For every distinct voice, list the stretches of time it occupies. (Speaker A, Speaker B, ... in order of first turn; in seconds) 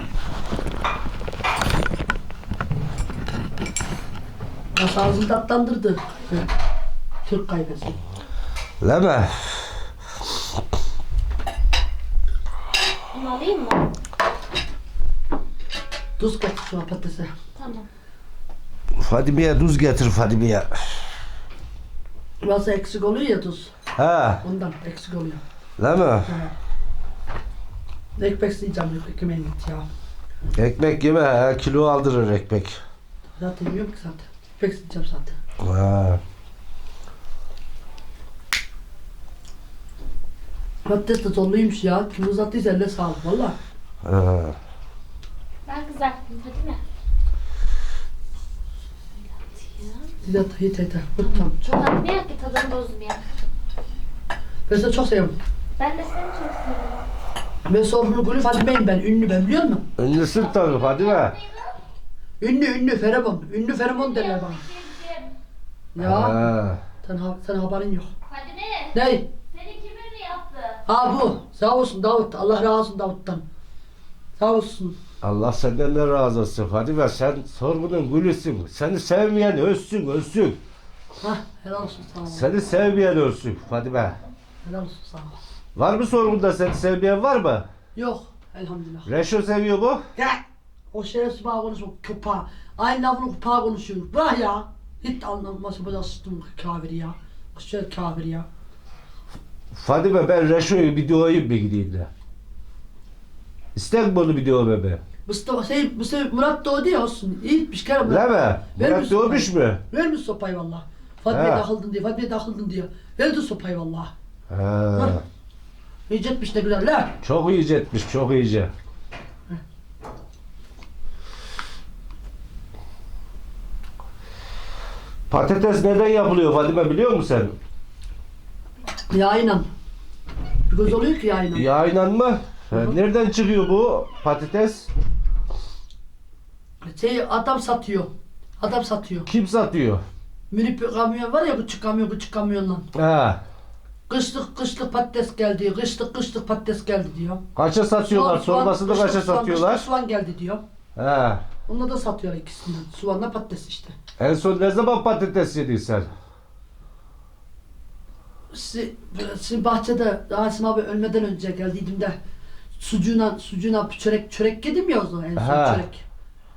Speaker A: 4.8-6.5, 7.2-8.0, 16.2-17.3, 22.4-23.7, 24.4-25.4, 26.3-26.5, 28.2-29.9, 33.4-35.4, 40.8-43.5, 50.2-51.6, 54.7-55.3, 57.7-59.8, 62.4-64.8, 65.9-66.4, 67.0-68.1, 68.9-69.3, 70.9-73.4, 74.4-75.0, 81.2-82.5, 84.6-85.3, 87.9-89.1, 90.9-98.5, 105.2-114.1, 116.1-117.2, 129.1-129.7, 130.7-131.7, 136.9-139.3, 140.5-142.9, 144.1-147.4, 148.0-150.6, 151.7-153.9, 158.5-162.2, 162.7-166.0
Speaker B: 8.8-9.6, 19.0-20.8, 23.9-24.4, 25.8-26.3, 30.6-32.8, 35.6-36.2, 44.0-44.5, 60.0-61.4, 66.0-66.8, 75.2-80.6, 82.2-84.2, 85.8-87.7, 89.0-90.0, 99.7-102.1, 103.7-105.0, 108.0-109.8, 111.3-111.6, 114.5-115.2, 117.2-118.7, 125.3-127.5, 131.5-134.9, 139.3-140.0, 142.9-143.4, 147.6-149.9, 150.9-151.4, 154.2-156.1, 165.3-165.8
Speaker C: 13.1-13.9, 17.6-17.9, 45.6-46.8, 49.2-50.1, 51.2-53.2, 55.8-57.0, 60.3-61.7, 64.1-65.3, 68.3-68.9, 69.5-70.8